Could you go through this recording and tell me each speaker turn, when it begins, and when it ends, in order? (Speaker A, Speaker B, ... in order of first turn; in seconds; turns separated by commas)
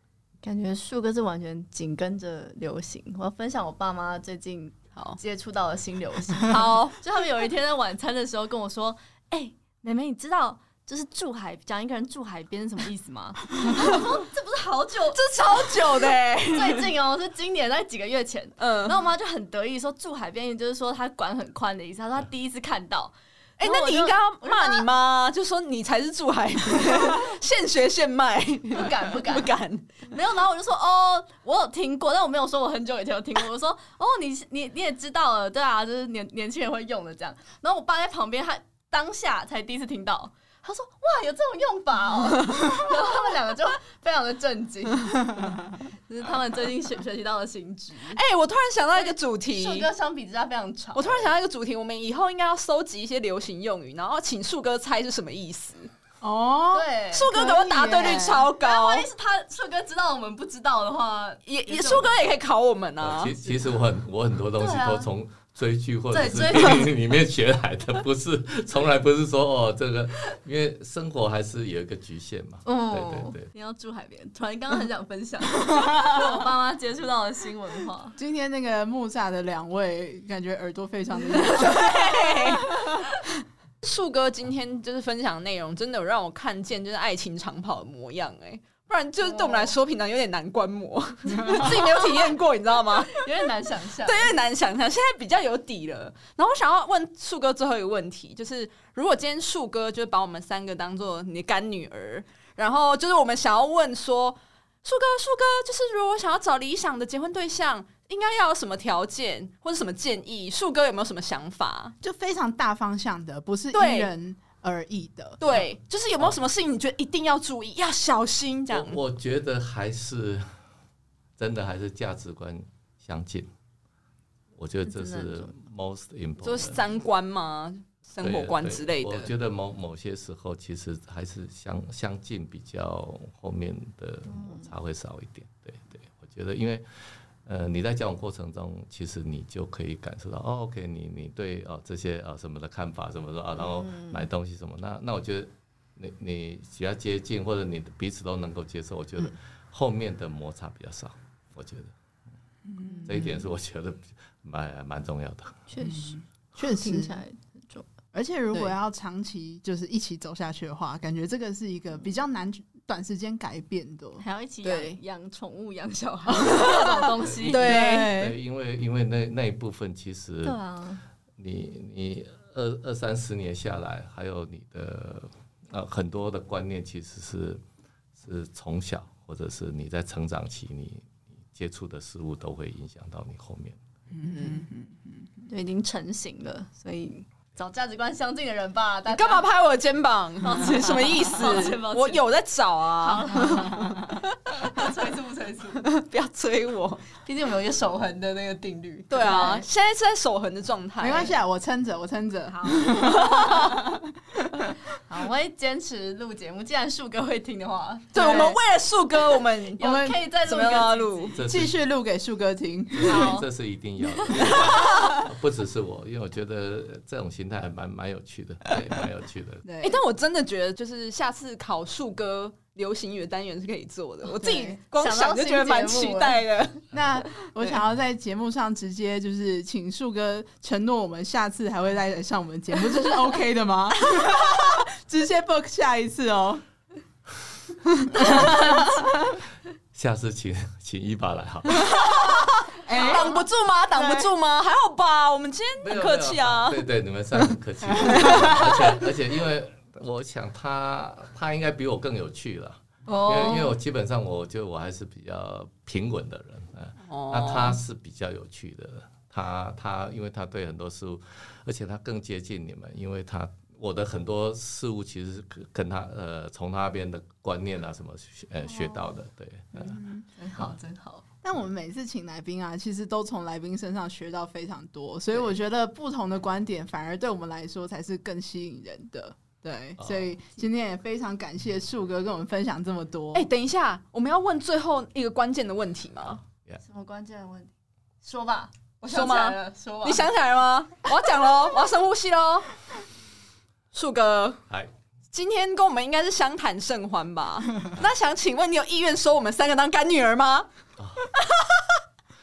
Speaker A: 0.4-24.9, Speaker B: 6.5-7.0, Speaker B: 15.1-16.9, Speaker B: 18.6-19.0, Speaker B: 23.6-29.9, Speaker A: 28.7-29.5, Speaker A: 30.1-48.2, Speaker B: 48.1-49.9, Speaker A: 49.0-51.3, Speaker B: 50.9-55.9, Speaker C: 56.2-58.5, Speaker A: 56.7-57.3, Speaker B: 57.1-59.1, Speaker A: 58.6-62.2, Speaker B: 61.5-63.5, Speaker D: 63.0-73.5, Speaker A: 64.6-65.1, Speaker A: 66.1-66.9, Speaker A: 72.7-78.2, Speaker C: 78.2-82.8, Speaker B: 81.3-82.7, Speaker B: 83.8-93.3, Speaker A: 89.2-89.7, Speaker C: 91.5-91.7, Speaker A: 91.6-92.2, Speaker A: 93.1-94.3, Speaker B: 94.0-112.0, Speaker C: 112.0-115.4, Speaker B: 113.7-114.1, Speaker B: 115.4-119.0, Speaker D: 118.7-120.5, Speaker D: 121.4-123.5, Speaker D: 124.5-126.9, Speaker A: 124.9-125.5, Speaker B: 126.4-129.3, Speaker D: 128.2-151.9, Speaker A: 134.3-134.7, Speaker A: 143.8-144.2, Speaker C: 152.7-153.4, Speaker D: 153.1-155.6, Speaker A: 155.7-157.9, Speaker C: 155.8-157.2, Speaker C: 158.1-164.2, Speaker A: 164.2-167.8, Speaker B: 164.6-165.0, Speaker B: 166.4-168.2, Speaker D: 167.2-170.6, Speaker C: 167.6-168.4, Speaker A: 170.4-171.0, Speaker D: 171.4-177.6, Speaker D: 178.2-183.8, Speaker C: 184.1-185.2, Speaker B: 184.3-184.6, Speaker A: 185.5-189.4, Speaker B: 189.1-194.9, Speaker A: 190.4-192.3, Speaker A: 193.0-195.9, Speaker B: 195.8-197.1, Speaker A: 197.2-199.7, Speaker B: 199.1-201.3, Speaker C: 201.0-204.1, Speaker A: 202.5-203.5, Speaker B: 203.0-203.8, Speaker A: 205.1-208.6, Speaker B: 208.1-209.8, Speaker A: 209.8-211.4, Speaker C: 209.8-210.3, Speaker B: 210.4-211.4, Speaker D: 211.3-211.8, Speaker C: 211.4-213.4, Speaker D: 212.9-219.7, Speaker A: 213.0-213.5, Speaker A: 214.1-214.9, Speaker B: 214.5-214.8, Speaker C: 219.7-220.0, Speaker B: 219.8-226.8, Speaker C: 224.4-224.8, Speaker A: 224.8-226.4, Speaker C: 226.9-236.6, Speaker B: 227.4-227.8, Speaker C: 238.2-239.1, Speaker D: 239.9-242.1, Speaker B: 241.8-246.9, Speaker C: 242.8-243.4, Speaker A: 242.9-243.3, Speaker C: 243.9-244.3, Speaker D: 245.8-270.0, Speaker C: 247.9-248.8, Speaker B: 248.0-248.6, Speaker A: 253.1-253.8, Speaker B: 257.1-257.8, Speaker A: 268.7-269.0, Speaker A: 269.8-271.2, Speaker C: 271.4-283.5, Speaker D: 280.0-280.3, Speaker B: 283.3-286.4, Speaker D: 286.2-286.8, Speaker A: 286.8-287.7, Speaker A: 288.2-290.3, Speaker B: 289.0-292.8, Speaker B: 293.9-294.6, Speaker B: 295.3-300.7, Speaker D: 301.0-301.3, Speaker B: 301.4-301.8